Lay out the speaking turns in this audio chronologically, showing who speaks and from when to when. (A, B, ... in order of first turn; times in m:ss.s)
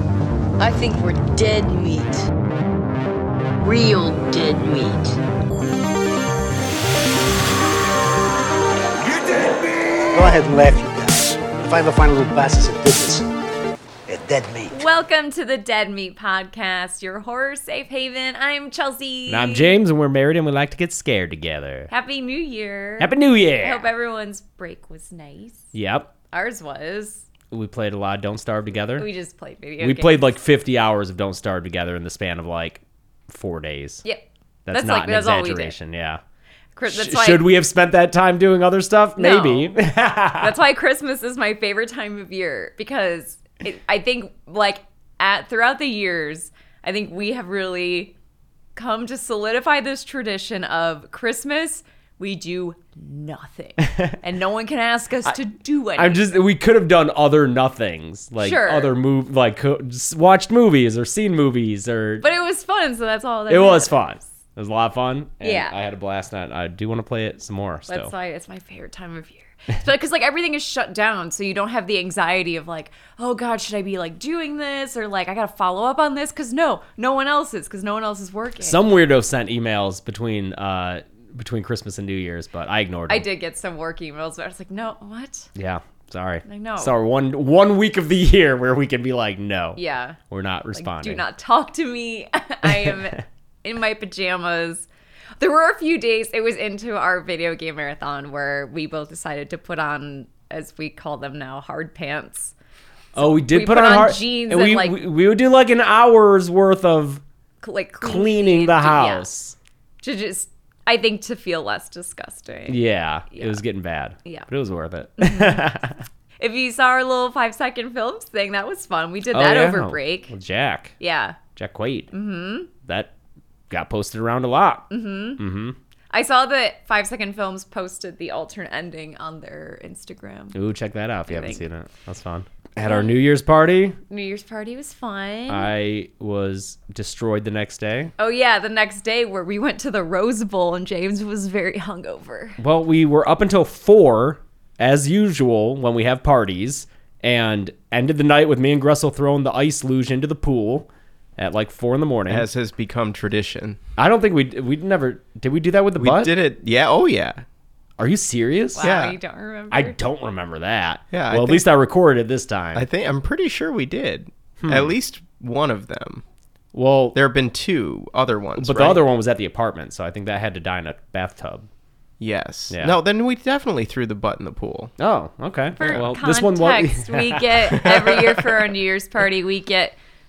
0:00.6-0:02.3 A
0:03.6-0:05.2 A
0:09.0-0:13.2 B
0:14.1-0:14.8 B
0:14.7-0:19.8 C
0:19.3-0:21.9 D
0:21.9-0:25.7 C
0:23.0-0:23.9 D
0:25.7-0:26.1 D
0:26.3-0:27.2 C
0:27.5-0:29.1 D
0:29.0-0:30.4 C
0:29.8-0:34.0 D
0:34.0-0:35.8 C
0:34.6-0:36.2 D
0:36.8-0:37.5 C
0:36.9-0:40.5 D
0:39.2-0:39.8 C
0:40.3-0:48.1 C
0:48.7-0:56.4 C
0:56.0-1:02.2 D
0:58.4-0:58.9 C
1:02.2-1:04.2 C
1:03.5-1:08.1 D
1:05.4-1:05.8 C
1:07.9-1:18.8 C
1:18.6-1:23.3 D
1:23.1-1:25.5 C
1:25.6-1:31.2 D
1:26.4-1:27.0 C
1:29.8-1:30.2 C
1:30.7-1:34.8 C
1:32.6-1:33.2 D
1:35.4-1:42.5 C
1:43.2-1:45.0 C
1:43.2-1:47.2 D
1:47.6-1:49.3 C
1:48.0-1:49.6 D
1:50.0-1:53.6 C
1:52.7-1:56.0 D
1:55.2-1:55.8 C
1:56.4-2:00.3 C
1:59.3-2:01.0 D
2:01.0-2:01.4 C
2:01.5-2:02.1 D
2:02.1-2:02.7 C
2:02.8-2:03.1 D
2:03.7-2:05.8 D
2:04.9-2:05.4 C
2:06.1-2:10.6 C
2:10.5-2:14.0 D
2:11.3-2:11.6 C
2:14.1-2:15.7 C
2:15.5-2:18.1 D
2:18.2-2:22.6 C
2:22.6-2:32.5 D
2:32.3-2:33.8 E
2:34.0-2:36.3 D
2:36.0-2:37.4 E
2:38.0-2:39.0 D
2:38.8-2:40.0 C
2:38.8-2:39.2 E
2:39.7-2:42.8 D
2:41.1-2:41.6 E
2:42.7-2:46.2 E
2:44.6-2:44.9 D
2:46.7-2:47.2 D
2:47.1-2:49.0 E
2:48.6-2:51.7 D
2:52.2-2:54.9 E
2:52.7-2:53.0 D
2:55.0-2:58.2 D
2:55.8-3:00.0 C